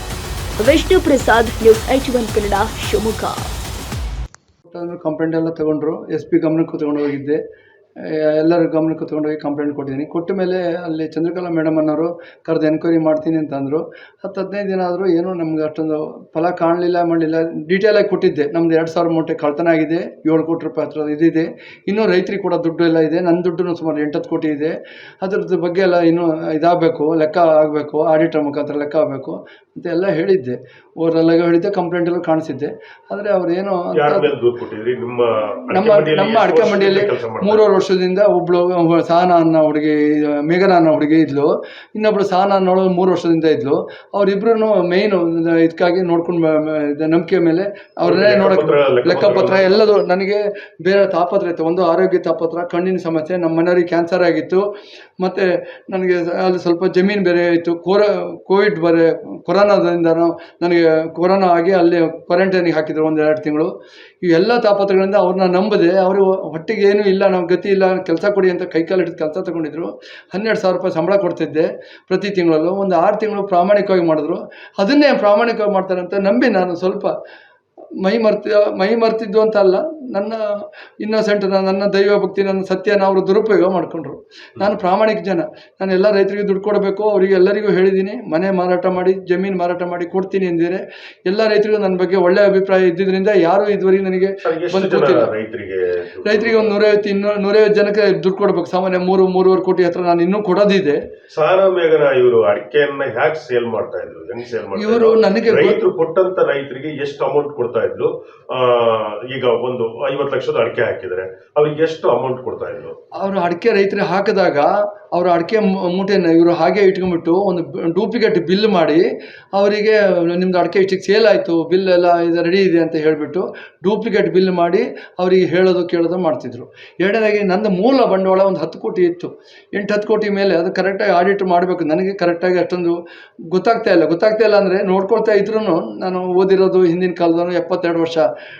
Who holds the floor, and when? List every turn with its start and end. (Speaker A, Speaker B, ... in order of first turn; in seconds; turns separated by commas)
Speaker A: 0.6-3.4, Speaker B: 4.7-7.4, Speaker B: 8.0-34.3, Speaker C: 33.9-37.7, Speaker B: 35.7-54.6, Speaker C: 48.0-49.8, Speaker B: 55.2-77.1, Speaker B: 78.0-80.4, Speaker B: 81.0-95.3, Speaker C: 94.4-96.8, Speaker B: 96.2-101.0, Speaker C: 101.3-112.9, Speaker B: 104.8-105.8, Speaker B: 113.2-132.9, Speaker B: 133.5-138.2